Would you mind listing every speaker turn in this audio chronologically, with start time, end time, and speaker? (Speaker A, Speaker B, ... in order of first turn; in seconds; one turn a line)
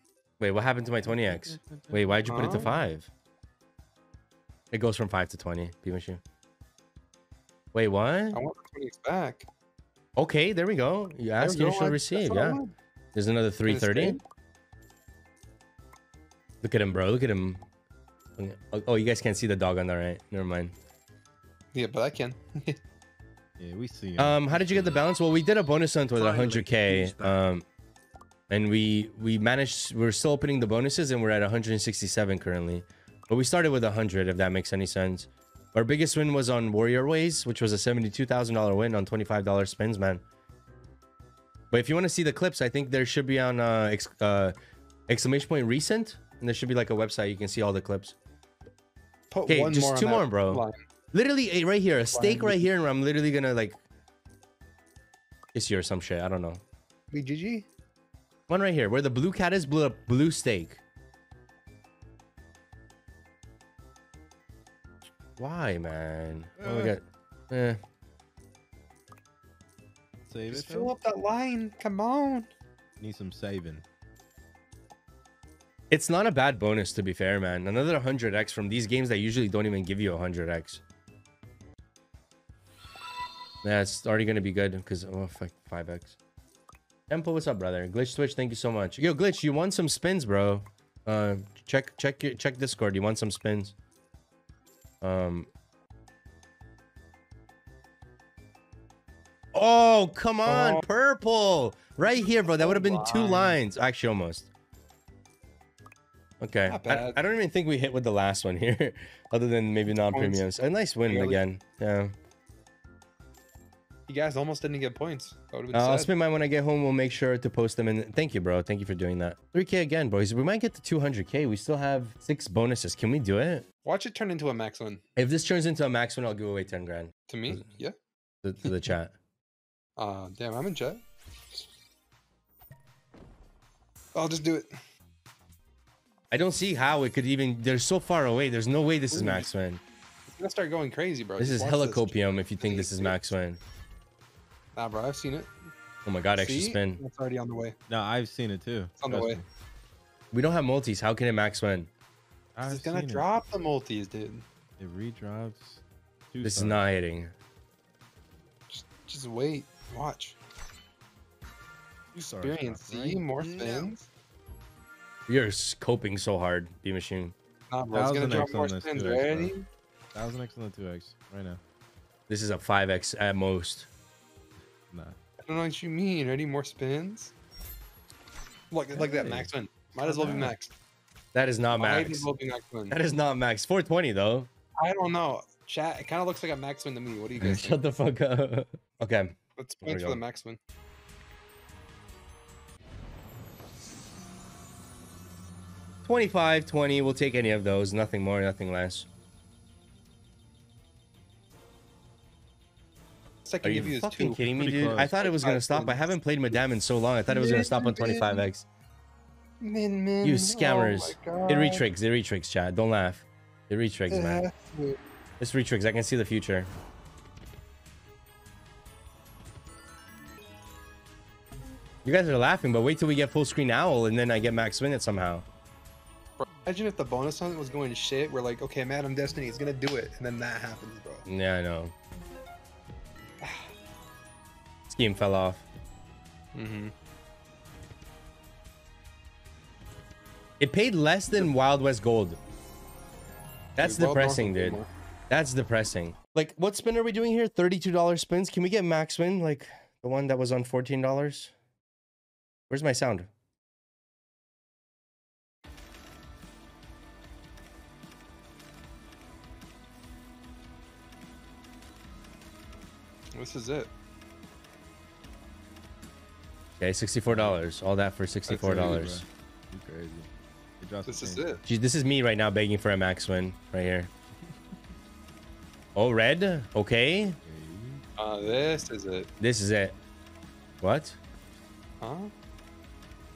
Speaker A: 0.4-3.1
Speaker B: 1.0-2.9
Speaker C: 2.3-2.7
Speaker A: 4.7-6.2
Speaker A: 7.7-8.4
Speaker C: 8.3-9.5
Speaker A: 10.2-12.6
Speaker C: 11.4-12.7
Speaker A: 13.1-14.2
Speaker C: 13.7-14.2
Speaker A: 16.6-17.6
Speaker A: 18.4-20.7
Speaker C: 21.7-22.8
Speaker B: 23.6-25.0
Speaker A: 24.2-27.6
Speaker C: 26.2-27.3
Speaker A: 28.5-40.2
Speaker A: 41.7-44.5
Speaker A: 45.1-48.1
Speaker C: 49.3-50.8
Speaker A: 49.5-53.8
Speaker C: 52.1-52.6
Speaker A: 55.5-56.6
Speaker C: 57.1-57.7
Speaker A: 58.5-60.8
Speaker A: 65.4-67.8
Speaker C: 66.6-66.9
Speaker B: 70.2-70.9
Speaker C: 70.5-72.5
Speaker B: 73.0-73.8
Speaker A: 75.9-80.8
Speaker A: 83.6-86.1
Speaker A: 87.1-93.7
Speaker A: 95.0-95.5
Speaker A: 99.5-104.5
Speaker C: 100.5-100.8
Speaker C: 102.0-103.6
Speaker A: 106.4-112.1
Speaker C: 106.7-107.2
Speaker C: 109.9-110.4
Speaker C: 111.0-111.4
Speaker C: 114.1-116.1
Speaker A: 115.7-123.6
Speaker C: 123.8-125.0
Speaker A: 125.2-127.6
Speaker C: 127.3-127.9
Speaker A: 128.4-129.1
Speaker C: 130.0-131.7
Speaker C: 134.1-134.7
Speaker A: 136.3-139.8
Speaker C: 139.1-139.5
Speaker C: 140.3-143.2
Speaker A: 141.4-143.6
Speaker C: 144.7-145.5
Speaker A: 146.0-147.0
Speaker C: 146.3-147.8
Speaker B: 147.9-149.4
Speaker C: 149.0-149.4
Speaker A: 150.3-151.9
Speaker B: 152.5-153.2
Speaker C: 152.6-154.4
Speaker B: 154.8-156.8
Speaker A: 156.4-157.3
Speaker C: 158.7-160.3
Speaker B: 162.1-163.9
Speaker C: 162.2-164.1
Speaker A: 165.3-167.3
Speaker C: 167.7-169.6
Speaker B: 167.9-169.5
Speaker B: 170.1-171.6
Speaker A: 172.3-173.9
Speaker B: 174.9-175.2
Speaker C: 175.4-177.3
Speaker C: 178.7-180.7
Speaker B: 178.9-180.5
Speaker A: 181.3-182.3
Speaker C: 181.7-183.0
Speaker A: 182.9-184.5
Speaker C: 184.8-187.8
Speaker A: 187.4-190.2
Speaker C: 189.6-190.6
Speaker A: 196.1-199.1
Speaker C: 203.4-206.5
Speaker A: 203.6-208.7
Speaker B: 204.6-205.2
Speaker C: 207.3-208.5
Speaker C: 209.6-211.8
Speaker A: 210.2-214.4
Speaker C: 214.1-215.0
Speaker A: 215.4-216.7
Speaker A: 222.0-225.4
Speaker C: 226.4-231.2
Speaker A: 231.2-231.9
Speaker C: 233.4-233.7
Speaker A: 234.9-235.6
Speaker C: 236.5-236.9
Speaker A: 240.6-242.4
Speaker A: 243.8-251.5
Speaker C: 243.8-244.9
Speaker A: 252.7-253.3
Speaker C: 263.3-263.9
Speaker A: 266.8-269.2
Speaker B: 267.3-267.6
Speaker C: 268.5-269.0
Speaker B: 268.6-270.3
Speaker B: 270.8-271.6
Speaker C: 271.1-271.6
Speaker A: 271.6-274.1
Speaker A: 275.9-277.4
Speaker B: 277.4-278.5
Speaker C: 278.2-279.3
Speaker A: 279.4-279.9
Speaker A: 280.8-281.2
Speaker C: 282.0-282.3